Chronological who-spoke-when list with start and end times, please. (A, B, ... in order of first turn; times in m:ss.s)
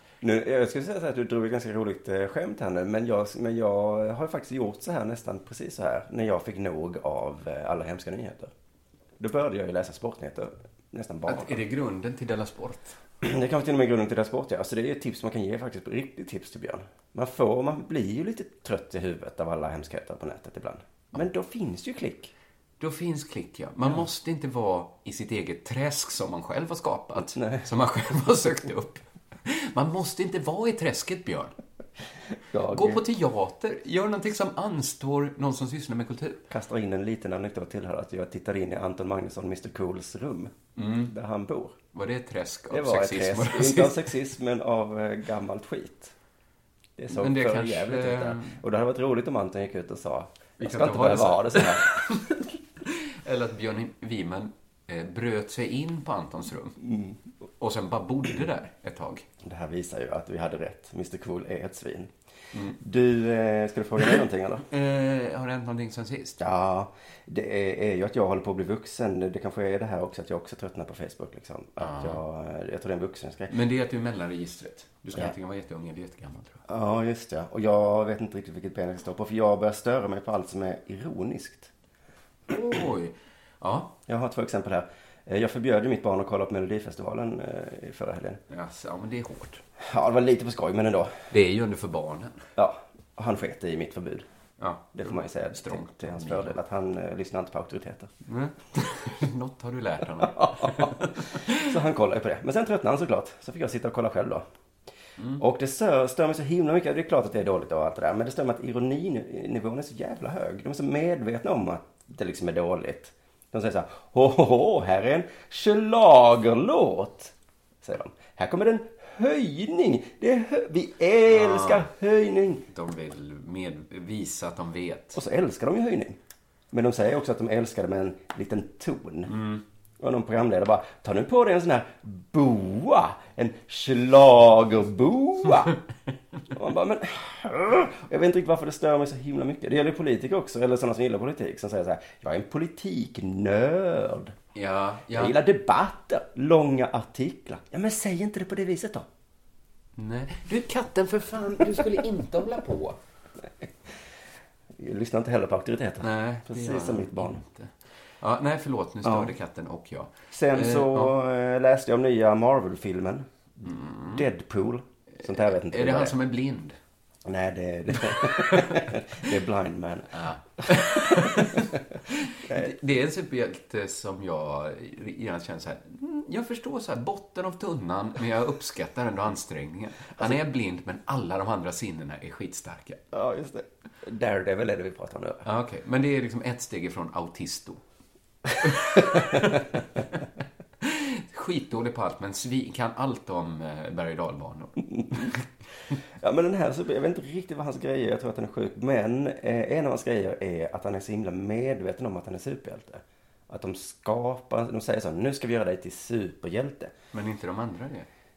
0:00.2-0:08.5 A
0:09.2-0:11.6 A
0:11.3-0:13.0 B
0:13.2-0:22.3 A
0:22.8-0:31.6 B
0:27.2-0:27.6 A
0:32.5-0:33.0 A
0:32.7-0:36.5 B
0:36.5-0:40.5 A
0:40.8-0:41.1 B
0:41.0-0:41.8 A
0:41.9-0:44.1 B
0:42.7-0:46.1 A
0:47.0-0:52.3 A
0:47.1-0:48.6 B
0:50.6-0:56.8 B
0:56.8-0:57.2 A
0:57.6-0:59.3 B
0:59.4-1:02.1 A
1:02.8-1:04.6 A
1:04.7-1:06.4 B
1:06.4-1:13.5 A
1:11.8-1:12.2 B
1:13.5-1:16.6 B
1:16.7-1:21.7 A
1:22.5-1:23.9 B
1:24.1-1:28.4 A
1:28.5-1:29.6 B
1:29.8-1:31.2 A
1:31.3-1:32.4 B
1:32.6-1:34.3 A
1:34.6-1:36.6 B
1:34.9-1:38.1 A
1:38.3-1:41.7 B
1:40.2-1:44.4 A
1:45.4-2:02.6 A
2:01.3-2:01.9 B
2:02.7-2:05.2 B
2:05.1-2:06.2 A
2:06.7-2:09.3 A
2:09.3-2:09.6 B
2:10.0-2:15.8 A
2:16.5-2:24.4 A
2:24.6-2:25.4 B
2:25.1-2:29.1 A
2:30.0-2:33.0 B
2:34.8-2:37.4 A
2:36.0-2:41.2 B
2:39.0-2:39.3 A
2:40.3-2:43.3 A
2:43.6-2:44.2 B
2:44.2-2:46.2 A
2:45.2-2:46.8 B
2:47.2-2:50.1 A
2:48.1-2:48.9 B
2:50.1-3:03.0 B
2:50.6-2:51.8 A
2:52.4-2:52.7 A
3:03.1-3:05.4 A
3:05.4-3:07.8 B
3:08.6-3:10.2 B
3:09.0-3:09.6 A
3:10.8-3:15.5 B
3:15.0-3:15.3 A
3:16.2-3:26.9 A
3:27.1-3:28.1 B